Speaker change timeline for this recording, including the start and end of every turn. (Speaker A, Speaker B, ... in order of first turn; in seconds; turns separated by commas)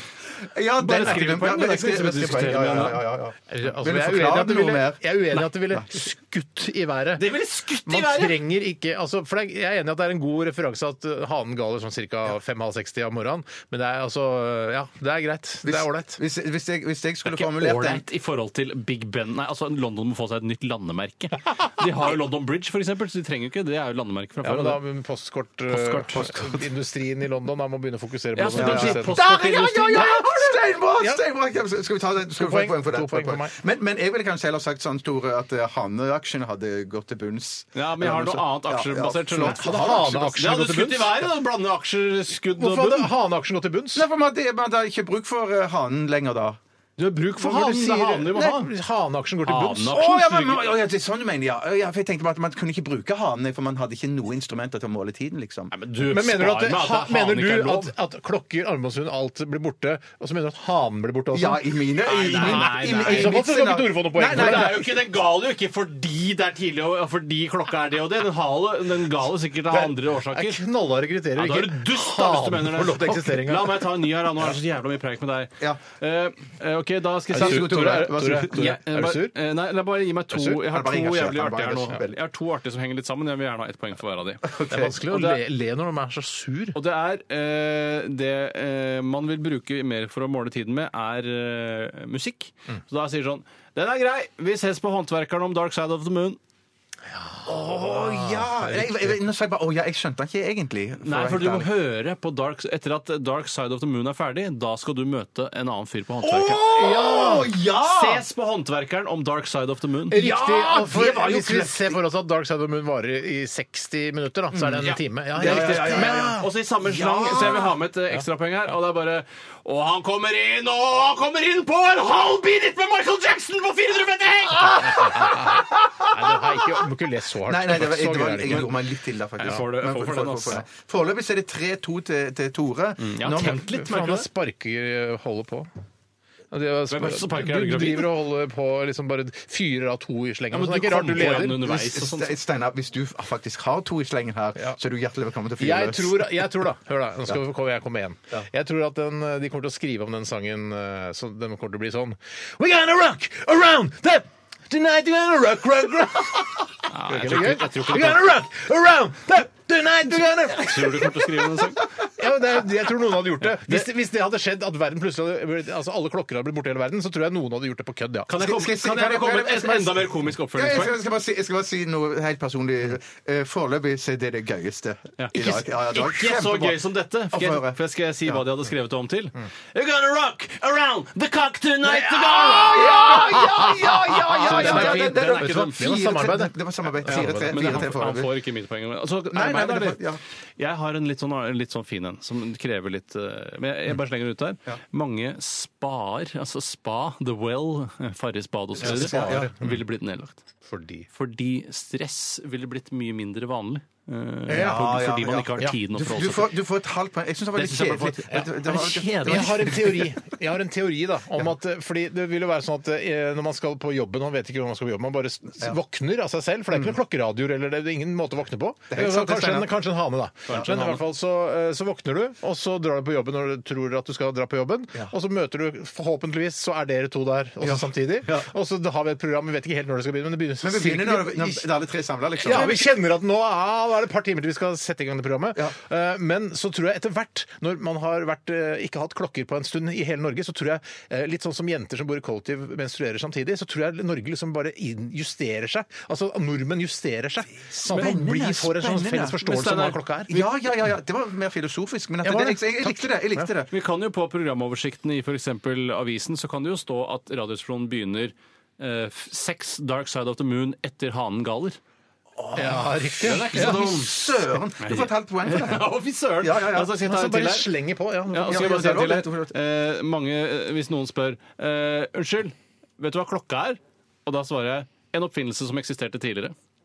Speaker A: 0.5-5.1, Speaker B: 0.8-3.0, Speaker C: 0.9-16.2, Speaker B: 7.2-8.4, Speaker A: 15.7-18.1, Speaker B: 17.2-24.8, Speaker C: 24.4-29.3, Speaker B: 25.7-26.3, Speaker A: 26.3-26.6, Speaker B: 28.4-30.5, Speaker A: 28.6-40.4, Speaker C: 29.9-30.2, Speaker C: 32.4-33.5, Speaker B: 37.8-43.1, Speaker C: 39.5-41.2, Speaker C: 42.5-44.1, Speaker A: 44.0-46.6, Speaker B: 47.0-48.7, Speaker C: 47.4-50.0, Speaker B: 49.5-50.6, Speaker A: 49.9-55.7, Speaker B: 55.7-57.9, Speaker C: 56.0-64.8, Speaker A: 61.3-64.8, Speaker B: 62.1-63.4, Speaker B: 64.3-70.6, Speaker C: 69.7-73.9, Speaker B: 71.4-84.5, Speaker A: 77.3-78.7, Speaker C: 77.3-79.3, Speaker A: 80.6-82.2, Speaker A: 84.4-85.0, Speaker C: 84.7-86.8, Speaker B: 85.1-85.4, Speaker B: 86.7-96.4, Speaker C: 97.1-99.2, Speaker A: 97.5-101.7, Speaker B: 101.0-106.9, Speaker A: 106.2-108.2, Speaker C: 106.6-107.5, Speaker B: 107.8-110.2, Speaker C: 110.1-116.5, Speaker A: 110.2-112.0, Speaker B: 114.6-125.3, Speaker A: 115.4-117.7, Speaker C: 117.2-117.6, Speaker C: 124.7-128.9, Speaker A: 127.5-133.6, Speaker B: 129.4-130.6, Speaker B: 133.0-134.3, Speaker C: 133.3-135.7, Speaker C: 136.5-141.8, Speaker B: 136.9-138.1, Speaker B: 140.5-142.4, Speaker A: 141.5-146.5, Speaker C: 145.6-161.5, Speaker B: 156.9-158.3, Speaker B: 160.7-161.9, Speaker C: 162.0-168.3, Speaker B: 163.4-163.9, Speaker B: 168.3-171.0, Speaker A: 168.4-178.4, Speaker B: 175.2-183.2, Speaker C: 181.9-187.9, Speaker A: 182.4-188.3, Speaker B: 184.4-185.8, Speaker B: 187.1-190.0, Speaker A: 189.3-190.2, Speaker B: 190.6-200.4, Speaker A: 198.8-199.5, Speaker C: 198.8-199.8, Speaker C: 200.7-201.1, Speaker B: 201.1-206.5, Speaker A: 204.5-210.1, Speaker B: 207.6-209.5, Speaker C: 208.3-231.7, Speaker A: 218.9-219.7, Speaker B: 220.5-221.0, Speaker A: 227.6-228.5, Speaker A: 230.6-232.9, Speaker C: 232.4-250.5, Speaker A: 247.7-249.4, Speaker B: 249.4-250.0, Speaker A: 250.3-253.7, Speaker C: 252.2-253.5, Speaker B: 253.7-261.8, Speaker A: 262.4-266.9, Speaker C: 262.6-263.8, Speaker B: 263.2-264.2, Speaker B: 264.8-267.7, Speaker C: 266.9-269.1, Speaker B: 268.3-276.6, Speaker A: 268.5-269.5